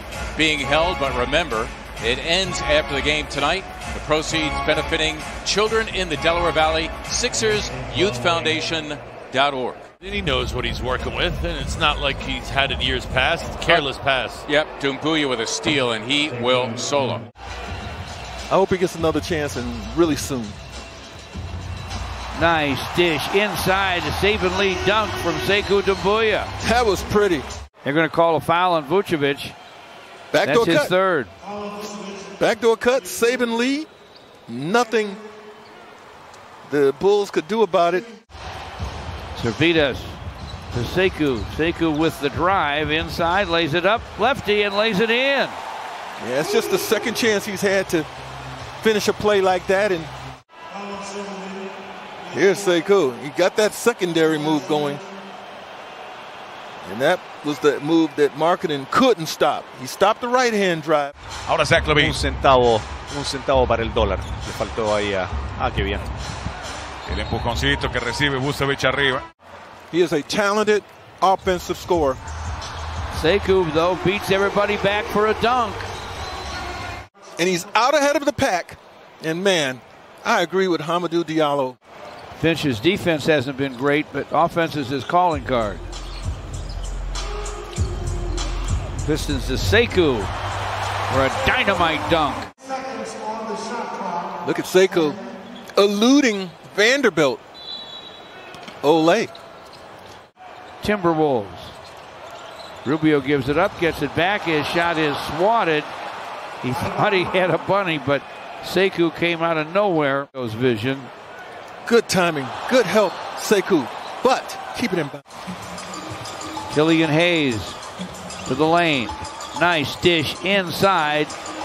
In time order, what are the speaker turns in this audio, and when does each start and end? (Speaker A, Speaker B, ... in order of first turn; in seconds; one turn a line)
Speaker A: 0.3-9.9
Speaker B: 10.1-13.2
Speaker A: 13.6-13.9
Speaker A: 14.4-17.2
Speaker C: 18.5-20.6
Speaker D: 22.3-26.5
Speaker C: 26.6-27.5
Speaker D: 27.8-29.6
Speaker C: 30.3-30.9
Speaker D: 30.4-31.3
Speaker C: 32.4-33.9
Speaker C: 34.5-35.2
Speaker C: 36.6-38.1
Speaker D: 39.3-40.2
Speaker D: 40.7-45.6
Speaker C: 46.2-48.1
Speaker C: 48.8-50.1
Speaker C: 52.3-55.0
Speaker C: 56.8-61.1
Speaker E: 62.0-66.0
Speaker C: 69.9-72.2
Speaker D: 73.1-75.9
Speaker C: 77.4-81.8
Speaker D: 82.4-85.8
Speaker D: 89.0-90.3
Speaker D: 91.1-92.5
Speaker C: 94.4-95.2
Speaker C: 95.8-97.4
Speaker C: 98.8-99.3
Speaker D: 100.8-101.7
Speaker D: 102.8-105.9
Speaker D: 106.6-111.1
Speaker C: 111.8-115.2
Speaker D: 116.7-117.8
Speaker D: 118.5-121.3